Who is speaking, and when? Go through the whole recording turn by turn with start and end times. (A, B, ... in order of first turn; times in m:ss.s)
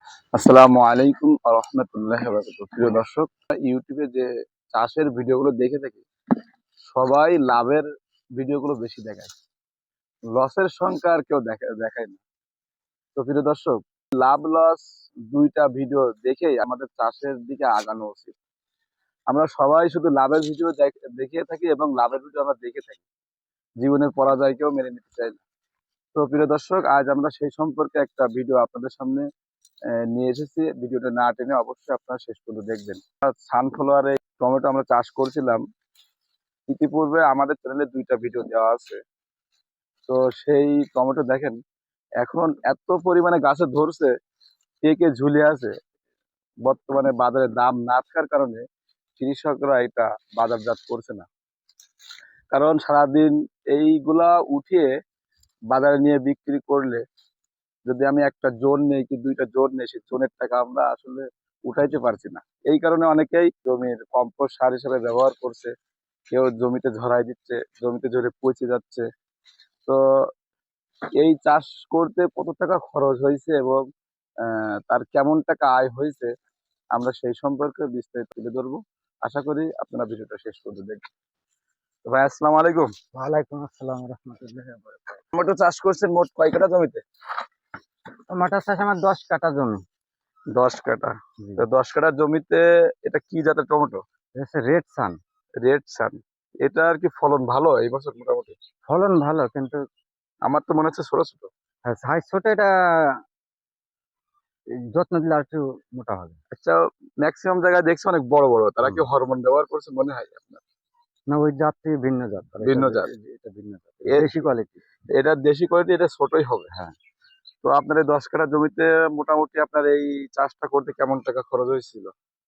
0:00.3-0:06.0 A
0:06.9-0:07.8 A
0:08.4-0:09.3 A
0:10.3-0:12.2 A
0:13.2-0:18.4 A
0:19.3-0:23.0 A
0:23.8-0:25.4 A
0:26.2-0:29.3 A
0:30.1-0:35.6 A
0:36.7-0:39.0 A
0:40.1-0:41.6 A
0:42.2-0:44.1 A
0:44.8-0:45.7 A
0:46.6-0:48.6 A
0:49.2-0:51.3 A
0:52.5-0:54.9 A
0:55.7-0:57.0 A
0:57.9-1:05.7 A
1:06.3-1:09.1 A
1:09.9-1:10.3 A
1:11.2-1:13.8 A
1:14.4-1:16.3 A
1:17.0-1:21.0 A
1:22.1-1:22.9 A
1:23.1-1:25.2 B
1:25.4-1:27.0 A
1:28.3-1:29.8 B
1:30.5-1:34.0 A
1:34.4-1:35.2 B
1:35.6-1:38.6 A
1:38.9-1:39.8 B
1:40.5-1:41.5 A
1:41.9-1:43.2 B
1:44.9-1:46.4 B
1:46.5-1:50.6 A
1:51.3-1:54.8 B
1:52.6-1:53.1 A
1:55.1-1:56.7 A
1:57.6-2:02.1 A